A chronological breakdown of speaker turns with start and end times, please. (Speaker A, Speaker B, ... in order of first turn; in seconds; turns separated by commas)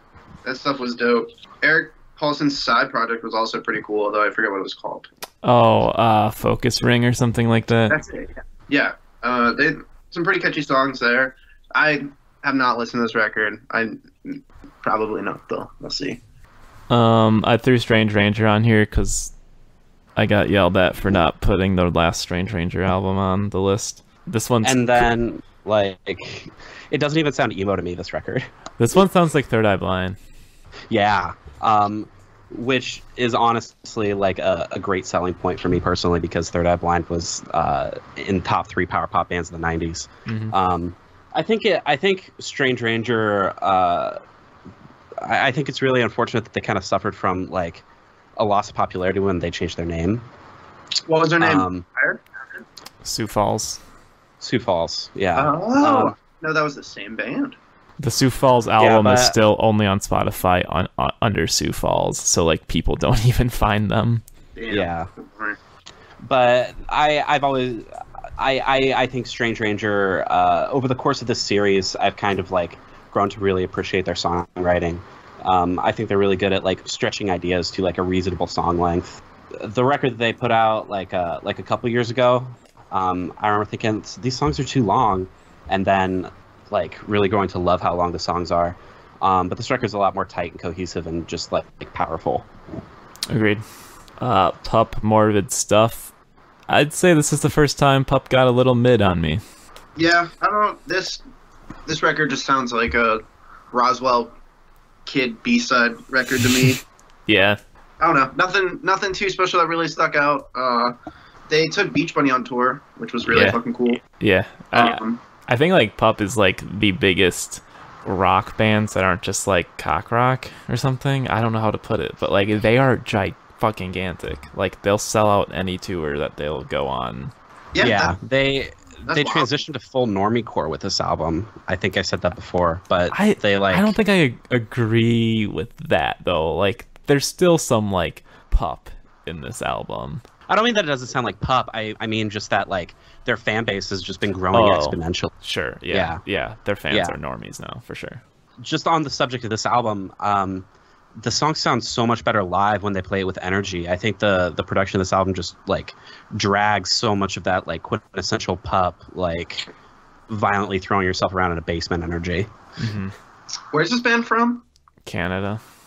Speaker A: 0.5-5.1, Speaker B: 5.4-8.0, Speaker A: 7.9-16.2, Speaker B: 16.9-19.3, Speaker B: 20.1-25.1, Speaker C: 24.6-28.5, Speaker B: 28.8-30.2, Speaker C: 30.9-44.2, Speaker B: 40.3-40.5, Speaker C: 45.2-47.9, Speaker C: 48.4-50.3, Speaker A: 51.1-52.6, Speaker C: 51.4-51.9, Speaker B: 53.0-53.8, Speaker C: 54.4-56.1, Speaker A: 55.4-57.6, Speaker B: 58.0-64.2, Speaker C: 58.8-59.4, Speaker A: 64.6-65.6, Speaker C: 64.7-65.1, Speaker C: 66.2-92.5, Speaker B: 93.3-93.6, Speaker B: 94.2-96.1, Speaker B: 96.7-99.4, Speaker A: 100.0-101.2, Speaker A: 101.9-104.4, Speaker A: 105.1-106.8, Speaker B: 107.3-107.6, Speaker A: 108.0-110.9, Speaker A: 111.5-114.0, Speaker B: 113.3-127.3, Speaker A: 114.7-115.2, Speaker A: 127.7-128.1, Speaker C: 127.8-133.9, Speaker A: 129.1-129.5, Speaker B: 133.1-140.2, Speaker C: 140.5-145.3, Speaker B: 144.5-148.2, Speaker C: 145.9-146.2, Speaker C: 146.9-147.2, Speaker C: 148.6-150.7, Speaker C: 151.2-159.7, Speaker C: 160.3-162.5, Speaker B: 162.8-163.2, Speaker A: 163.7-164.7, Speaker B: 165.1-165.6